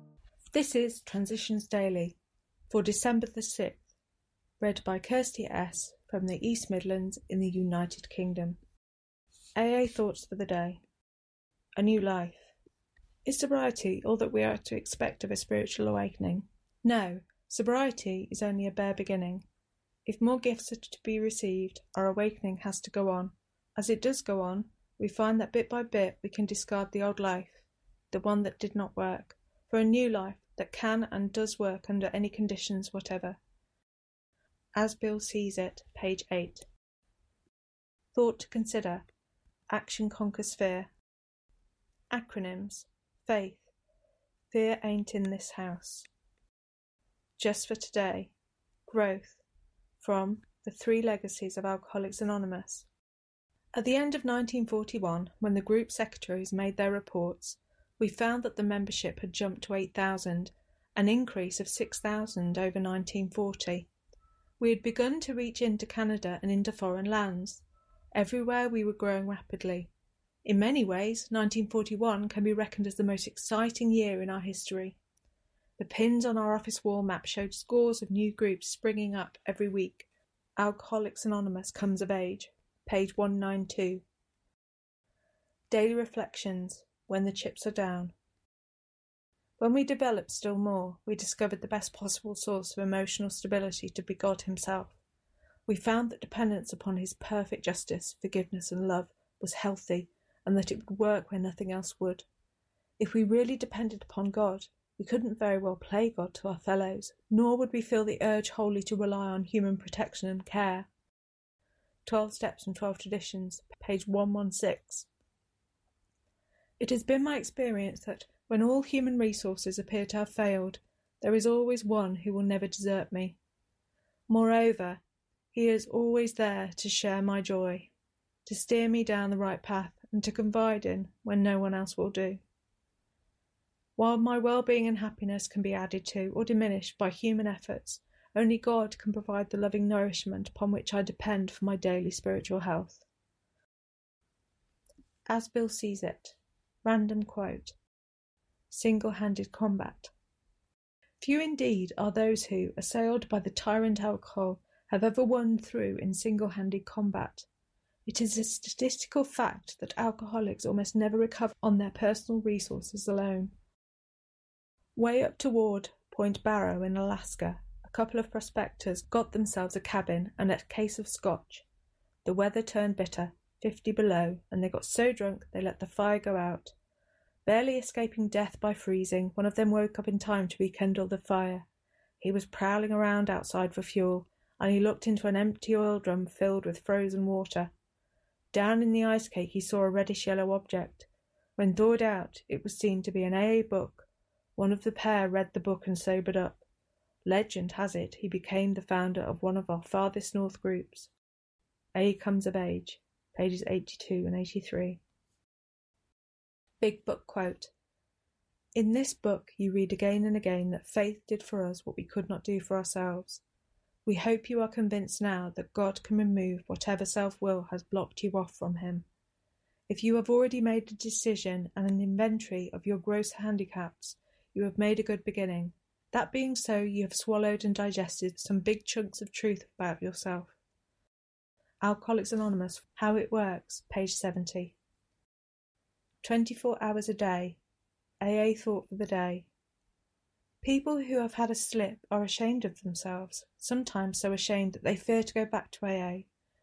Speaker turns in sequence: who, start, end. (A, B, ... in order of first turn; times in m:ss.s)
0:00.5-0:02.2 A
0:02.7-0:03.8 A
0:04.6-0:08.6 A
0:09.6-0:10.8 A
0:11.8-0:12.5 A
0:13.2-0:19.4 A
0:20.1-0:33.4 A
0:34.8-0:36.6 A
0:38.1-0:39.1 A
0:39.7-0:40.9 A
0:42.1-0:43.7 A
0:44.5-0:46.1 A
0:47.4-0:48.3 A
0:48.9-0:49.4 A
0:50.0-0:52.9 A
0:53.7-1:03.9 A
1:04.6-1:09.9 A
1:10.4-1:15.0 A
1:15.8-1:24.0 A
1:25.7-1:28.1 A
1:29.6-1:35.0 A
1:35.7-1:42.2 A
1:43.0-1:50.9 A
1:52.1-1:55.1 A
1:56.8-2:03.4 A
2:04.3-2:05.0 A
2:05.5-2:07.9 A
2:08.4-2:12.4 A
2:14.0-2:23.0 A
2:25.3-2:27.8 A
2:28.7-2:30.1 A
2:31.2-2:37.5 A
2:38.1-2:43.5 A
2:45.0-2:51.6 A
2:52.2-2:56.7 A
2:57.4-3:01.7 A
3:02.2-3:07.7 A
3:08.5-3:16.6 A
3:17.2-3:21.1 A
3:21.9-3:25.0 A
3:26.8-3:27.7 A
3:28.8-3:33.4 A
3:34.1-3:39.1 A
3:39.9-3:50.5 A
3:51.8-3:54.8 A
3:56.2-3:57.6 A
3:58.2-3:59.5 A
4:00.6-4:06.3 A